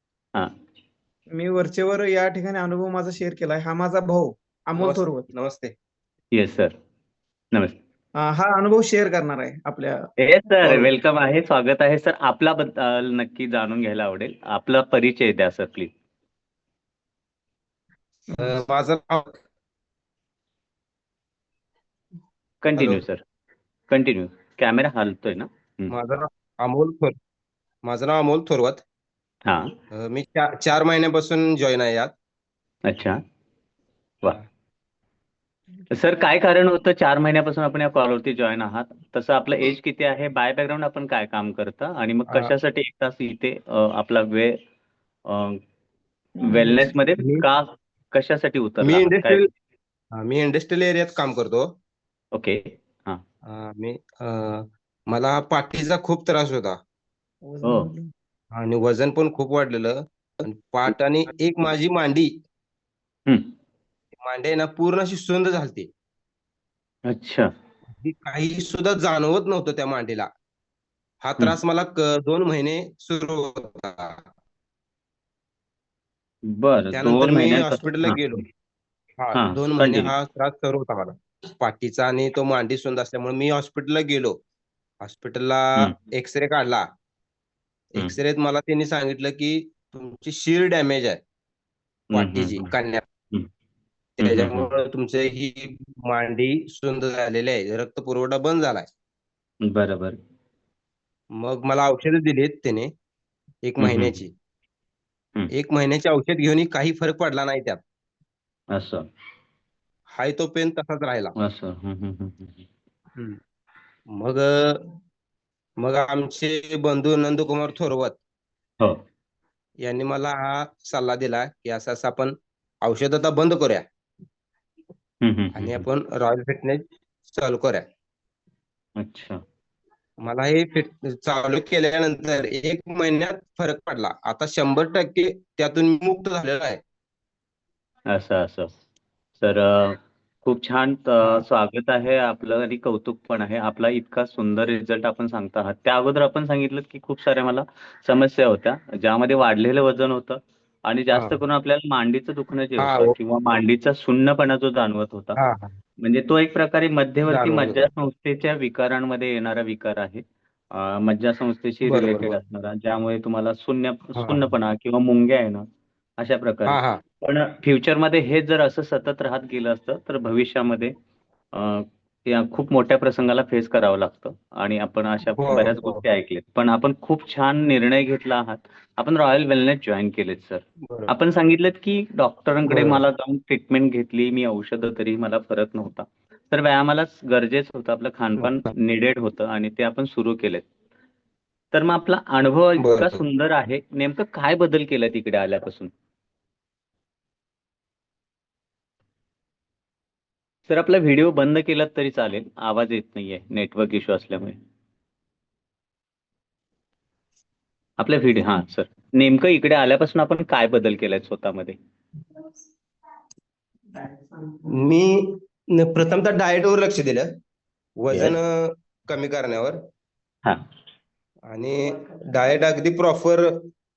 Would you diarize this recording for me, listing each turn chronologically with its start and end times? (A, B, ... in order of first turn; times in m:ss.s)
0:01.3-0:05.3 A
0:04.8-0:05.7 B
0:06.3-0:06.7 C
0:08.2-0:10.0 A
0:10.2-0:15.9 C
0:10.6-0:10.9 B
0:18.3-0:18.5 A
0:18.4-0:19.4 B
0:22.6-0:23.2 C
0:22.8-0:23.0 B
0:23.9-0:25.9 C
0:25.9-0:27.1 B
0:27.8-0:28.8 B
0:29.9-0:32.1 B
0:32.8-0:33.2 C
0:35.9-0:44.5 C
0:45.3-0:45.6 C
0:46.4-0:49.4 C
0:47.2-0:47.5 B
0:48.8-0:49.5 B
0:50.1-0:51.7 B
0:52.3-0:53.2 C
0:53.4-0:56.8 B
0:57.4-0:58.1 A
0:58.5-1:02.3 B
1:04.2-1:05.9 B
1:07.1-1:07.5 C
1:08.0-1:10.3 B
1:11.2-1:14.2 B
1:16.5-1:18.4 C
1:16.9-1:18.4 B
1:19.2-1:24.4 B
1:19.3-1:20.1 C
1:25.0-1:26.8 B
1:27.9-1:31.2 B
1:32.1-1:32.7 C
1:32.1-1:33.0 B
1:34.2-1:38.9 B
1:34.2-1:34.7 C
1:39.7-1:40.2 C
1:41.4-1:42.9 B
1:43.6-1:44.3 B
1:43.8-1:44.2 C
1:45.5-1:47.8 B
1:48.7-1:49.0 C
1:50.1-1:51.3 B
1:51.4-1:52.6 C
1:54.1-1:54.8 B
1:55.8-1:58.2 B
1:59.8-2:03.8 B
2:05.2-2:05.8 C
2:05.5-2:07.8 B
2:09.0-2:09.4 C
2:10.2-2:16.8 B
2:18.1-2:18.7 C
2:19.4-2:35.4 C
2:31.1-2:31.4 B
2:32.8-2:33.1 B
2:35.4-2:35.7 B
2:36.0-2:45.6 C
2:37.3-2:37.8 B
2:41.8-2:42.4 B
2:44.1-2:44.5 B
2:46.2-2:50.9 C
2:46.7-2:47.0 B
2:51.5-3:10.7 C
2:55.4-2:56.1 B
3:02.6-3:03.0 B
3:08.4-3:08.7 B
3:11.7-3:15.9 C
3:12.8-3:13.2 B
3:20.7-3:24.6 C
3:28.0-3:31.8 C
3:34.8-3:37.3 B
3:38.0-3:39.8 B
3:41.5-3:43.5 B